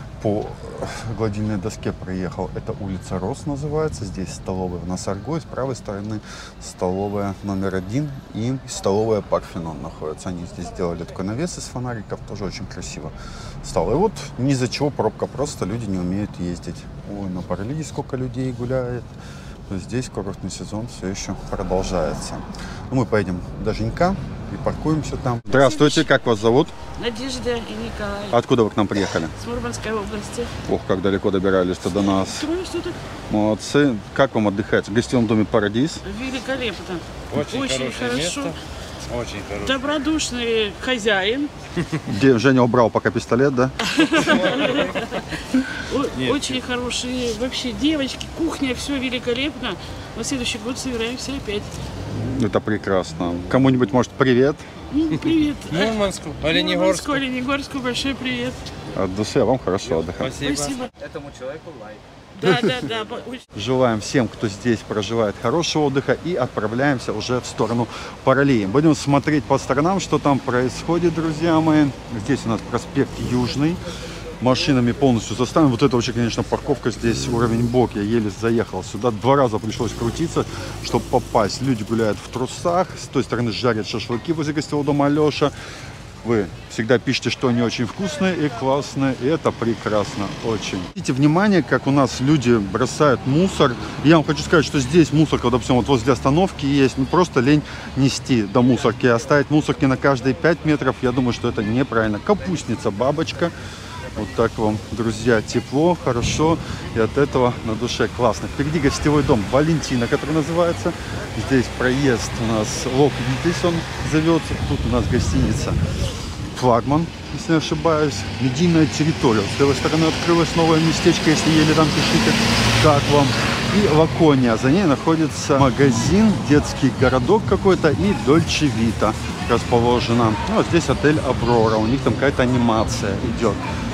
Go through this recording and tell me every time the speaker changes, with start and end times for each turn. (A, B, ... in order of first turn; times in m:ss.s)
0:00.2-0:19.1 A
0:19.7-0:26.7 A
0:25.5-0:26.1 B
0:27.0-0:28.4 B
0:28.3-0:29.3 A
0:29.4-0:30.5 B
0:30.6-0:32.5 A
0:32.2-0:33.0 B
0:33.3-0:36.0 A
0:36.0-0:38.6 B
0:39.6-0:41.5 B
0:42.1-0:43.8 A
0:44.0-0:45.2 B
0:45.8-0:51.7 B
0:52.2-0:54.6 A
0:54.9-0:58.6 B
0:55.7-0:57.1 C
0:59.0-1:00.4 A
1:00.3-1:00.9 B
1:00.3-1:02.0 C
1:02.4-1:03.4 B
1:03.5-1:13.8 A
1:14.4-1:25.5 A
1:26.2-1:43.5 A
1:44.2-1:55.8 A
1:56.5-2:13.6 A